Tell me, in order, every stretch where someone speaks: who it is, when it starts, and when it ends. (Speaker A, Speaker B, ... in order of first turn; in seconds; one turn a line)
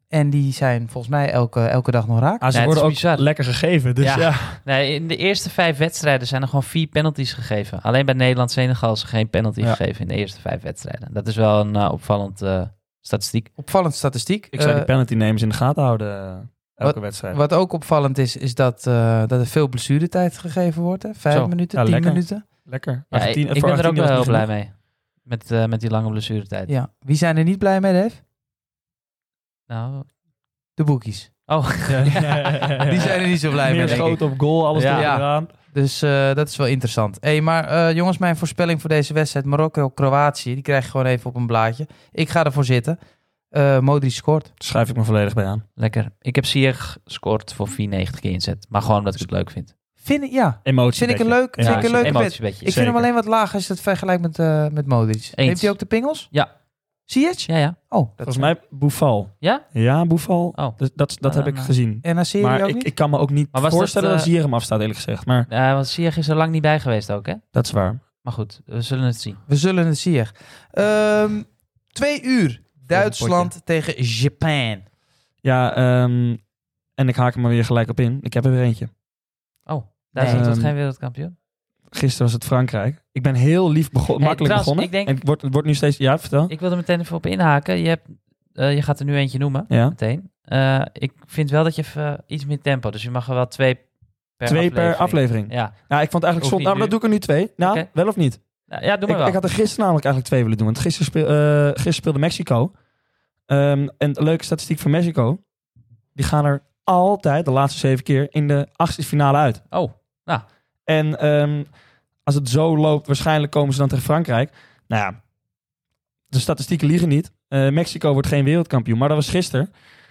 Speaker A: 0.1-2.5
Speaker B: 2.4-4.6
Speaker C: 2.5-3.4
Speaker C: 4.0-13.5
Speaker A: 13.6-14.9
Speaker B: 14.5-17.4
Speaker A: 16.8-22.4
Speaker C: 21.3-21.6
Speaker B: 21.7-24.5
Speaker C: 23.1-26.7
Speaker A: 26.7-28.2
Speaker C: 29.7-30.1
Speaker A: 30.8-31.5
Speaker C: 31.5-33.1
Speaker B: 31.9-35.5
Speaker A: 32.7-43.0
Speaker C: 33.7-35.2
Speaker A: 43.5-44.5
Speaker B: 44.6-45.6
Speaker C: 45.8-49.7
Speaker A: 50.0-56.3
Speaker B: 50.6-53.1
Speaker C: 51.6-52.8
Speaker C: 55.4-56.5
Speaker A: 57.1-58.5
Speaker C: 57.5-57.8
Speaker B: 58.2-65.5
Speaker C: 59.4-59.7
Speaker C: 60.5-61.8
Speaker A: 62.0-62.9
Speaker C: 63.5-64.3
Speaker C: 65.5-67.5
Speaker B: 67.5-68.0
Speaker C: 68.2-69.4
Speaker A: 69.5-74.8
Speaker B: 72.9-73.5
Speaker B: 75.4-76.4
Speaker B: 77.0-78.9
Speaker C: 79.7-81.3
Speaker A: 80.2-80.5
Speaker B: 80.2-80.8
Speaker B: 81.9-86.5
Speaker C: 84.2-85.2
Speaker C: 86.5-98.1
Speaker B: 89.7-90.0
Speaker B: 94.5-98.4
Speaker C: 98.7-99.4
Speaker B: 99.1-102.8
Speaker B: 103.5-105.4
Speaker B: 106.2-109.6
Speaker C: 109.7-110.4
Speaker B: 110.9-115.2
Speaker B: 116.3-119.7